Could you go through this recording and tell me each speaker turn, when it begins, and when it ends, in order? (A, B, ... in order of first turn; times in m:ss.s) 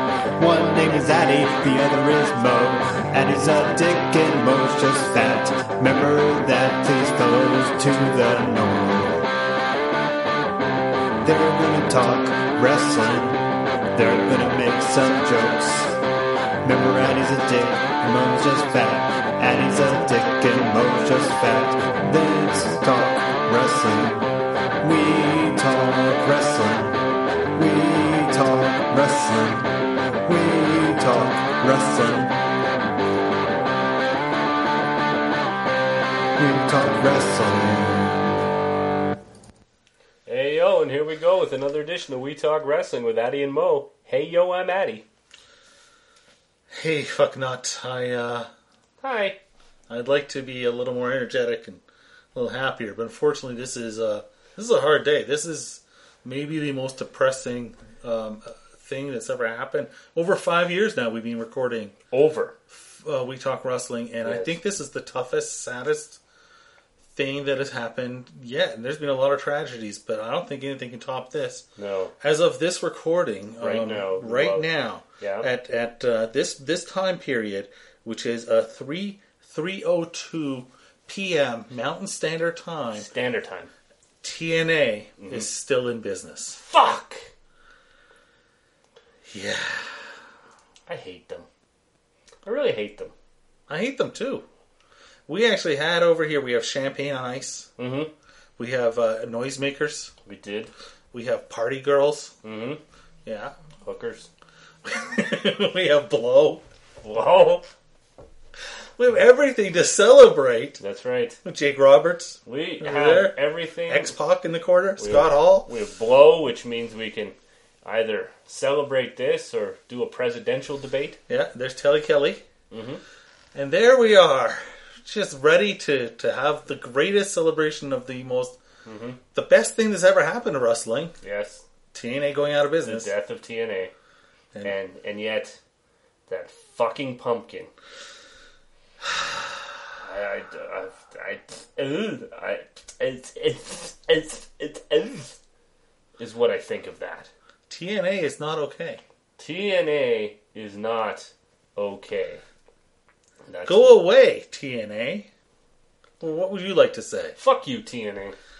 0:00.4-0:09.3 A
0:11.2-0:16.0 A
0:16.6-0:24.2 A
0:24.8-0:27.0 A
0:27.5-0:29.7 A
0:30.2-0:32.4 A
0:36.4-0:38.4 A
0:40.2-0:45.0 B
0:46.7-0:48.5 C
0:49.0-0:49.4 B
0:49.9-0:51.8 C
0:52.3-1:01.9 C
1:02.1-1:02.6 B
1:02.7-1:06.2 C
1:04.2-1:04.6 B
1:07.1-1:11.6 C
1:11.8-1:12.1 B
1:12.2-1:23.1 C
1:13.6-1:14.7 B
1:15.2-1:15.5 B
1:22.9-1:23.7 B
1:24.2-1:26.6 C
1:25.2-1:25.5 B
1:26.6-1:27.3 B
1:29.2-1:30.1 C
1:30.9-1:31.4 B
1:32.4-1:33.1 B
1:33.7-1:34.4 C
1:35.3-1:37.7 C
1:37.8-1:38.1 B
1:38.6-1:40.1 C
1:40.2-1:40.7 B
1:41.1-1:42.3 C
1:42.4-1:42.8 B
1:43.2-1:43.5 C
1:43.8-1:44.3 B
1:44.8-1:46.6 C
1:47.0-1:47.7 B
1:49.0-1:50.8 C
1:50.8-1:51.4 B
1:51.4-1:55.7 C
1:52.4-1:54.1 B
1:55.0-2:01.2 B
2:01.3-2:02.4 C
2:02.7-2:03.0 B
2:03.5-2:08.6 C
2:08.8-2:09.2 B
2:09.3-2:11.1 C
2:11.2-2:11.6 B
2:11.9-2:13.1 C
2:12.8-2:13.9 B
2:14.6-2:15.6 B
2:16.3-2:17.7 B
2:20.0-2:25.4 B
2:26.2-2:27.3 B
2:27.7-2:29.0 C
2:29.4-2:32.4 B
2:33.5-2:34.0 B
2:33.6-2:35.3 C
2:36.2-2:37.4 C
2:37.4-2:38.4 B